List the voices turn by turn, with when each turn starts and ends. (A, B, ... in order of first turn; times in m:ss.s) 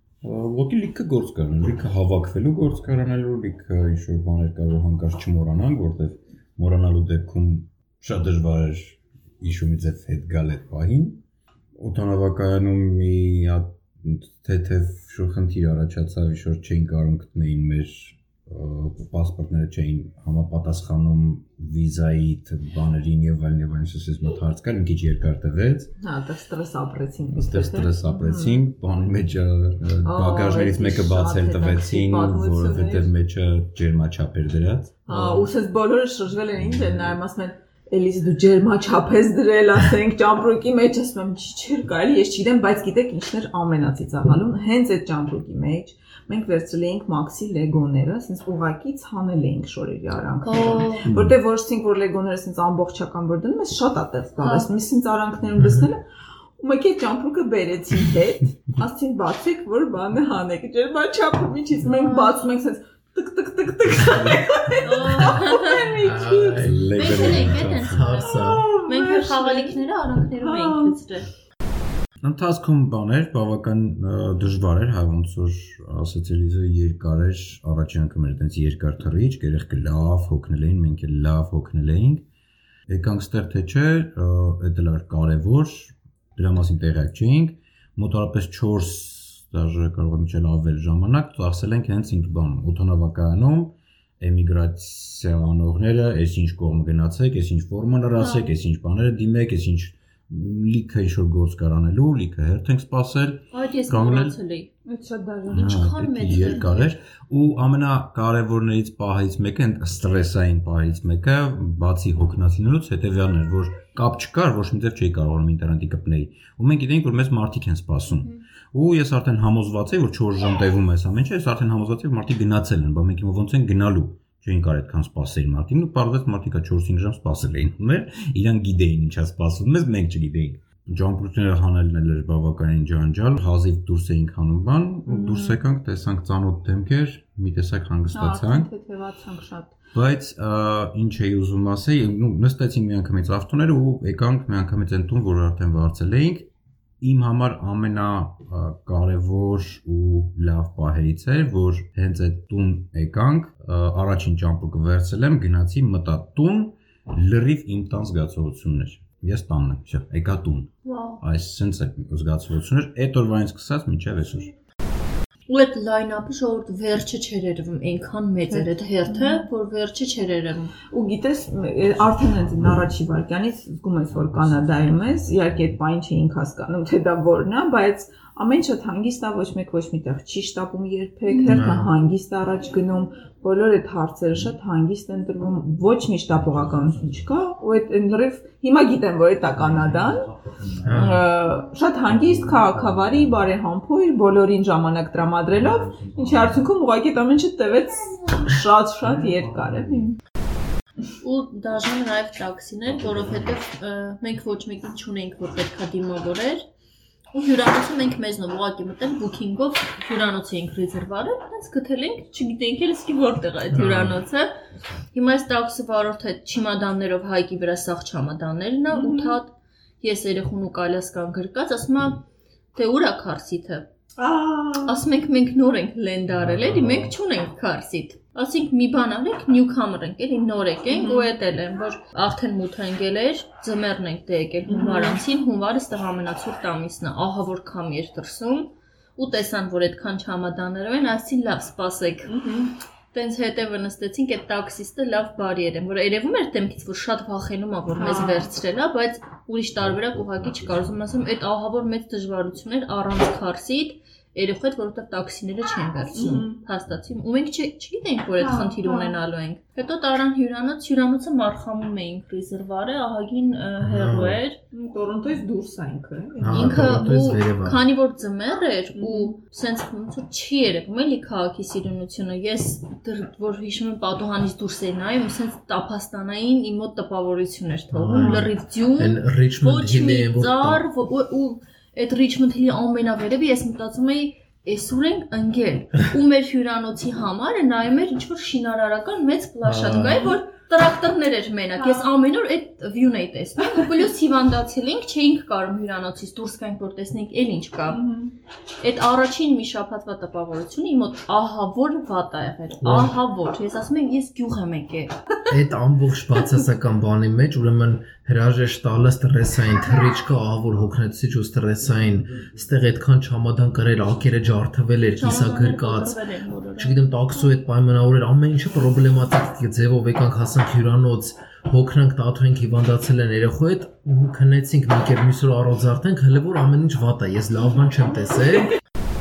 0:00.2-0:11.2 A
0:11.7-0:25.9 A
0:26.0-0:28.6 B
0:27.3-0:35.5 A
0:30.0-0:33.1 B
0:35.0-0:56.0 B
0:50.4-0:51.0 C
0:54.4-0:54.7 C
0:55.6-0:55.9 D
0:56.6-1:07.5 B
1:01.9-1:02.4 C
1:04.8-1:05.8 C
1:06.0-1:06.9 D
1:06.6-1:08.0 A
1:07.0-1:11.2 C
1:07.8-1:08.6 D
1:08.2-1:09.8 B
1:10.4-1:11.0 B
1:12.2-1:22.2 A
1:22.9-1:44.4 A
1:38.2-1:38.5 C
1:43.5-1:44.7 C
1:44.9-1:45.8 B
1:45.5-2:18.7 A
1:45.5-1:46.9 C
2:15.0-2:15.6 B
2:18.1-2:19.7 B
2:19.9-2:26.5 A
2:27.0-2:44.5 A
2:40.8-2:41.2 C
2:45.5-2:50.7 C
2:48.5-2:49.4 B
2:50.8-3:10.3 B
3:01.3-3:01.6 C
3:01.5-3:01.9 D
3:10.8-3:11.2 D
3:10.9-3:20.2 B
3:21.2-3:26.6 C
3:27.3-3:34.5 C
3:33.7-3:34.2 D
3:35.1-3:42.2 C
3:38.9-3:39.4 B
3:42.7-3:43.9 C
3:44.2-3:45.0 B
3:44.8-4:02.3 C
3:46.5-3:47.0 D
3:50.9-3:51.3 B
3:54.6-3:55.2 B
4:02.2-4:02.7 B
4:03.1-4:24.6 C
4:08.0-4:08.5 B
4:16.1-4:16.6 B
4:18.4-4:19.2 B
4:23.8-4:24.4 D
4:24.7-4:26.9 B
4:26.4-4:27.8 D
4:26.5-4:58.0 C
4:28.9-4:29.4 B
4:37.9-4:40.8 D
4:38.1-4:38.5 B
4:49.6-4:50.4 D
4:51.8-4:52.0 B
4:57.9-4:58.3 B
4:58.8-5:05.1 C
5:02.8-5:03.1 D
5:05.5-5:16.2 D
5:15.2-5:17.0 C
5:16.8-5:28.7 D